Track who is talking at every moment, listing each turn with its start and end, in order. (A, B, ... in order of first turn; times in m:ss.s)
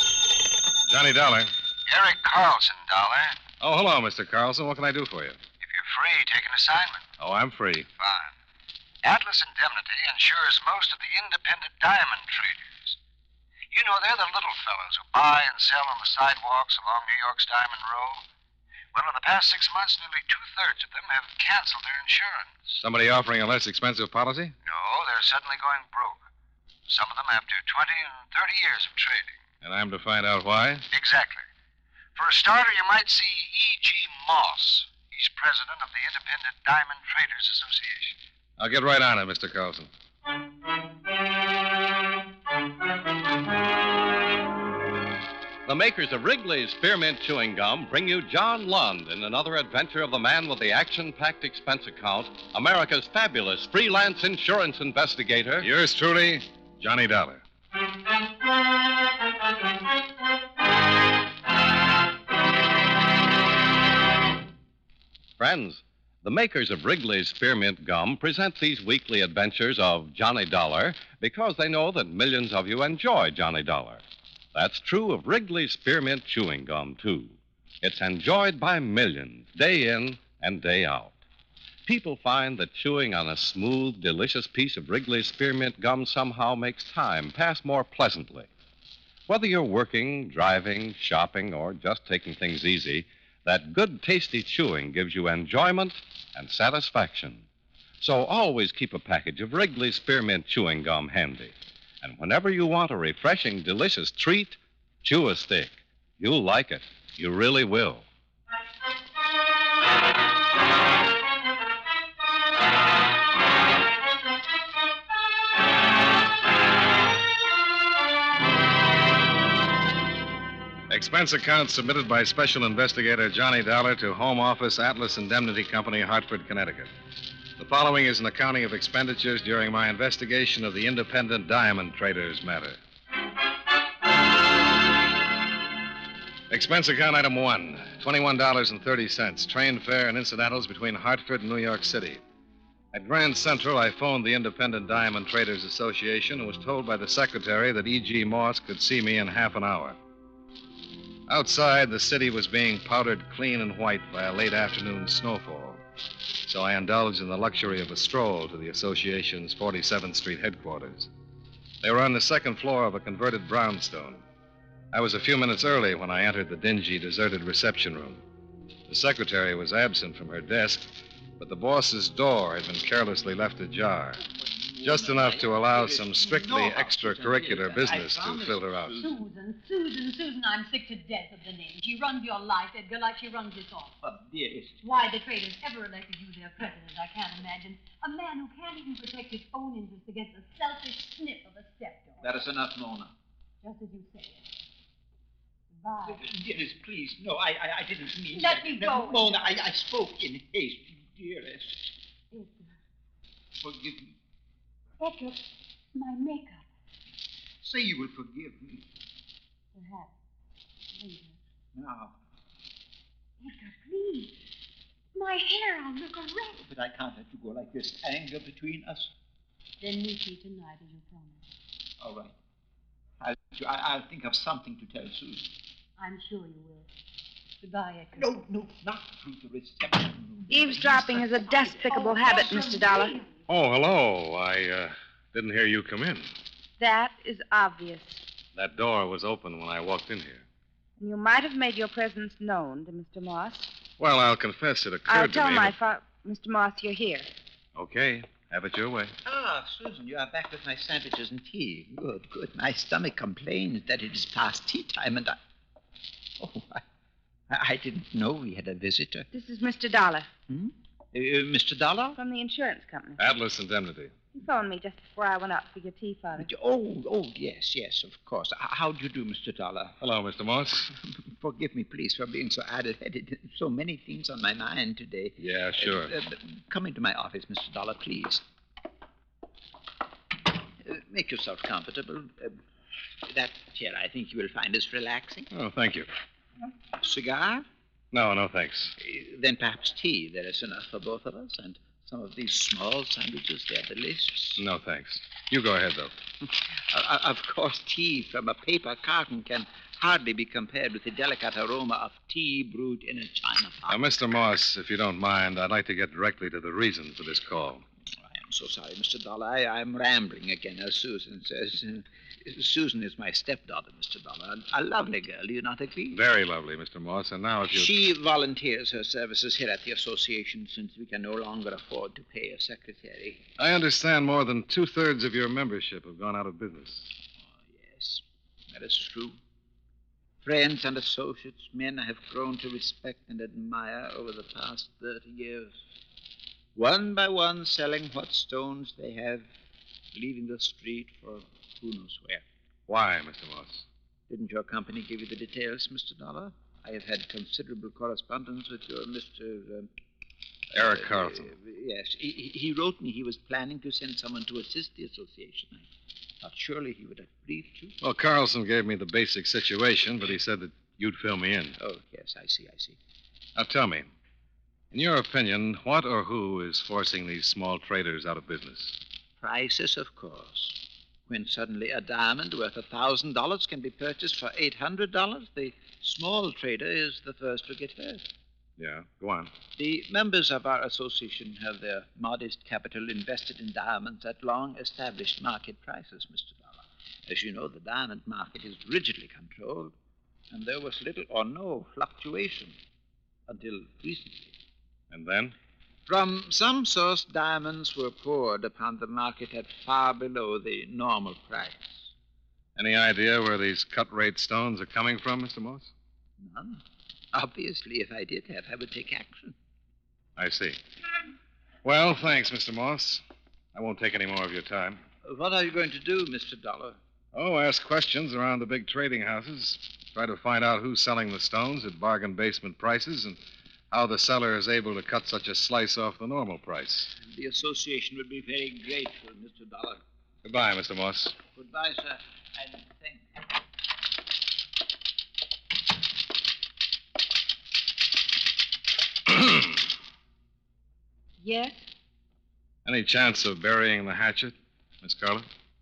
0:00.9-0:01.5 A
0:01.9-0:03.4 B
0:03.6-0:05.4 A
0:05.6-0:07.1 B
0:07.2-0:07.9 A
0:08.0-0:08.3 B
0:09.0-0:13.0 B
0:13.7-0:18.2 B
0:18.9-0:22.8 B
0:22.8-0:24.5 A
0:24.6-0:26.2 B
0:26.9-0:29.4 B
0:29.6-0:30.9 A
0:30.9-0:31.4 B
0:32.1-0:38.2 B
0:38.6-0:39.9 A
0:45.6-0:55.7 C
0:55.6-0:57.4 A
1:05.4-1:21.2 C
1:21.8-1:28.5 C
1:29.3-1:37.4 C
1:38.0-1:48.0 C
2:00.9-2:06.9 A
2:07.6-2:12.8 A
2:16.5-2:22.2 A
2:22.9-2:30.0 A
2:31.3-2:35.8 A
2:36.4-2:41.1 A
2:41.8-2:44.2 A
2:44.9-2:48.2 A
2:48.9-2:50.9 A
2:51.4-2:54.2 A
2:54.2-2:59.1 D
2:54.8-2:58.9 A
2:59.0-3:03.9 E
3:04.0-3:04.8 D
3:04.8-3:12.3 E
3:12.2-3:13.1 D
3:13.6-3:14.4 E
3:15.7-3:16.2 E
3:16.0-3:21.8 D
3:18.3-3:19.3 E
3:22.3-3:22.7 E
3:23.6-3:24.2 D
3:25.0-3:25.4 E
3:25.9-3:26.6 E
3:27.6-3:28.8 D
3:29.7-3:30.1 E
3:30.9-3:31.4 E
3:31.7-3:32.1 D
3:33.4-3:34.4 E
3:35.1-3:36.6 E
3:36.6-3:39.1 D
3:39.8-3:41.4 E
3:42.0-3:42.3 D
3:43.2-3:45.5 D
3:46.0-3:46.9 E
3:47.6-3:48.3 E
3:48.1-3:51.2 D
3:50.5-3:53.2 F
3:51.5-3:53.3 E
3:53.5-3:56.3 A
3:56.8-3:58.2 F
3:58.5-4:00.4 A
4:01.0-4:03.7 F
4:04.0-4:05.8 A
4:05.1-4:07.3 F
4:07.7-4:09.1 A
4:09.2-4:15.4 D
4:16.4-4:16.8 D
4:17.5-4:19.3 D
4:19.3-4:20.3 F
4:20.5-4:22.2 D
4:22.2-4:23.2 F
4:23.2-4:24.1 A
4:24.3-4:26.5 F
4:26.4-4:30.0 D
4:30.0-4:30.9 A
4:30.9-4:38.4 D
4:35.4-4:36.1 A
4:40.8-4:42.6 D
4:43.2-4:45.5 D
4:45.5-4:46.1 A
4:47.0-4:47.6 D
4:48.1-4:48.9 A
4:49.0-4:54.6 D
4:54.6-4:56.1 A
4:56.9-5:04.0 D
5:03.9-5:07.8 A
5:08.2-5:16.2 D
5:16.1-5:17.9 A
5:17.7-5:23.4 D
5:23.6-5:27.1 A
5:27.5-5:29.4 D
5:30.4-5:35.8 D
5:36.7-5:39.4 D
5:40.1-5:42.4 D
5:42.9-5:43.8 A
5:44.3-5:49.9 D
5:50.7-5:51.5 A
5:50.8-5:55.9 D
5:56.4-5:58.0 D
5:58.0-6:01.8 A
6:01.8-6:03.0 D
6:03.6-6:04.1 A
6:04.9-6:09.0 A
6:09.4-6:18.2 D
6:18.8-6:19.5 A
6:19.8-6:29.9 D
6:30.5-6:32.8 D
6:33.5-6:34.5 D
6:35.1-6:35.5 A
6:36.1-6:42.1 D
6:42.8-6:45.9 A
6:46.4-6:49.6 D
6:50.4-6:50.8 A
6:51.8-6:55.0 A
6:55.2-6:57.0 D
6:57.3-7:03.4 A
7:03.9-7:07.1 A
7:07.2-7:10.0 D
7:10.4-7:11.4 A
7:11.5-7:13.2 D
7:19.3-7:19.8 A
7:21.4-7:21.8 F
7:22.8-7:25.4 A